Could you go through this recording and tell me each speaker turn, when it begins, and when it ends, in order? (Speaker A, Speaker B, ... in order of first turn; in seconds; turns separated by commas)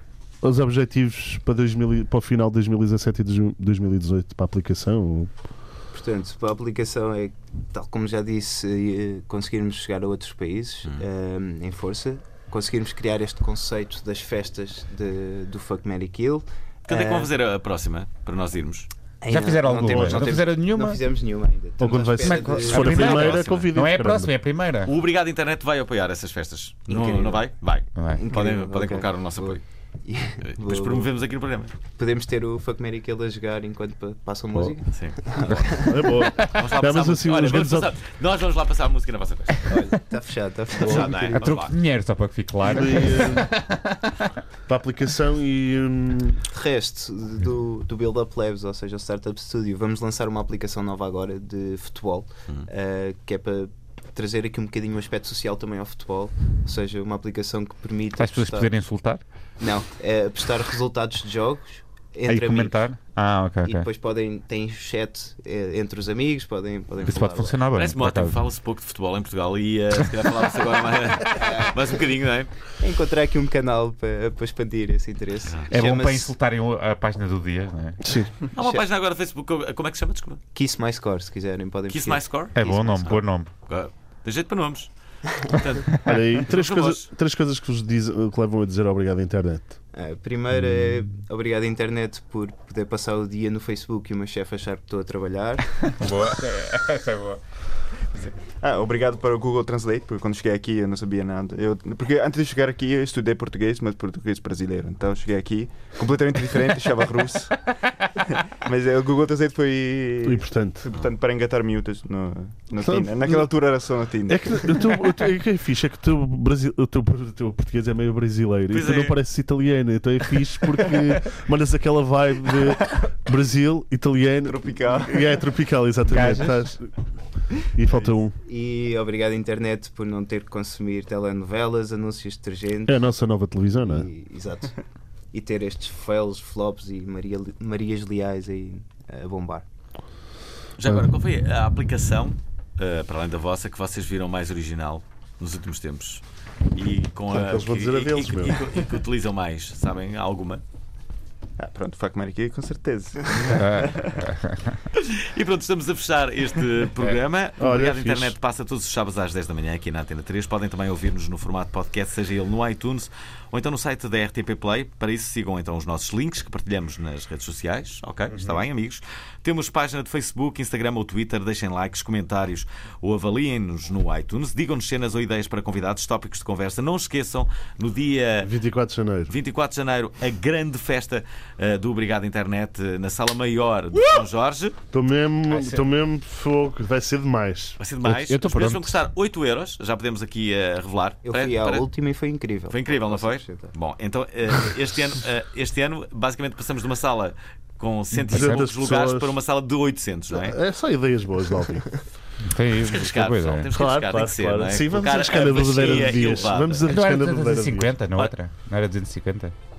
Speaker A: 0.4-5.3, Speaker B: 5.9-17.3, Speaker C: 16.9-18.9, Speaker B: 19.2-23.1, Speaker D: 19.3-21.0, Speaker A: 21.8-24.3, Speaker D: 22.2-24.9, Speaker C: 22.7-23.7, Speaker C: 24.8-29.6, Speaker B: 26.9-27.5, Speaker D: 27.9-28.2, Speaker B: 28.1-31.1, Speaker C: 30.4-31.7, Speaker B: 31.9-36.3, Speaker C: 34.9-35.2, Speaker A: 35.7-37.9, Speaker D: 36.2-36.5, Speaker C: 36.4-39.7, Speaker B: 39.7-41.5, Speaker C: 40.8-41.7, Speaker D: 40.9-44.3, Speaker A: 42.6-43.6, Speaker A: 44.7-46.4, Speaker B: 46.5-58.7, Speaker D: 58.2-59.2, Speaker B: 59.6-62.9, Speaker D: 62.2-63.9, Speaker B: 63.6-67.6, Speaker D: 67.0-68.5, Speaker C: 67.7-72.5, Speaker B: 71.2-71.9, Speaker B: 72.8-76.3, Speaker D: 75.7-78.1, Speaker A: 78.0-78.3, Speaker B: 78.5-78.8, Speaker C: 78.5-80.4, Speaker B: 80.5-83.1, Speaker C: 81.9-87.1, Speaker D: 82.5-83.5, Speaker A: 86.0-89.7, Speaker B: 89.9-96.1, Speaker D: 96.0-97.4, Speaker E: 98.6-114.9, Speaker A: 110.2-110.8, Speaker A: 112.8-113.5, Speaker A: 114.3-126.9, Speaker C: 118.7-119.2, Speaker E: 124.4-125.4, Speaker D: 126.1-126.7, Speaker A: 127.7-128.3, Speaker B: 128.4-133.0, Speaker A: 132.9-134.1, Speaker B: 133.8-134.8, Speaker B: 135.3-139.7, Speaker C: 140.8-146.2, Speaker C: 146.7-150.6, Speaker A: 147.3-148.6, Speaker E: 151.6-154.2, Speaker C: 153.3-153.6, Speaker D: 153.5-154.8, Speaker C: 154.9-178.5, Speaker A: 157.6-158.3, Speaker D: 168.3-168.6, Speaker A: 178.4-179.3, Speaker C: 179.3-184.8, Speaker A: 184.9-187.8, Speaker D: 185.5-185.8, Speaker C: 187.8-191.8, Speaker D: 188.0-189.0, Speaker B: 191.2-193.7, Speaker C: 192.7-200.6, Speaker A: 198.1-199.3, Speaker D: 198.3-198.7, Speaker A: 200.3-202.0, Speaker D: 202.4-203.7, Speaker C: 202.8-206.9, Speaker A: 203.7-207.9, Speaker D: 206.8-209.5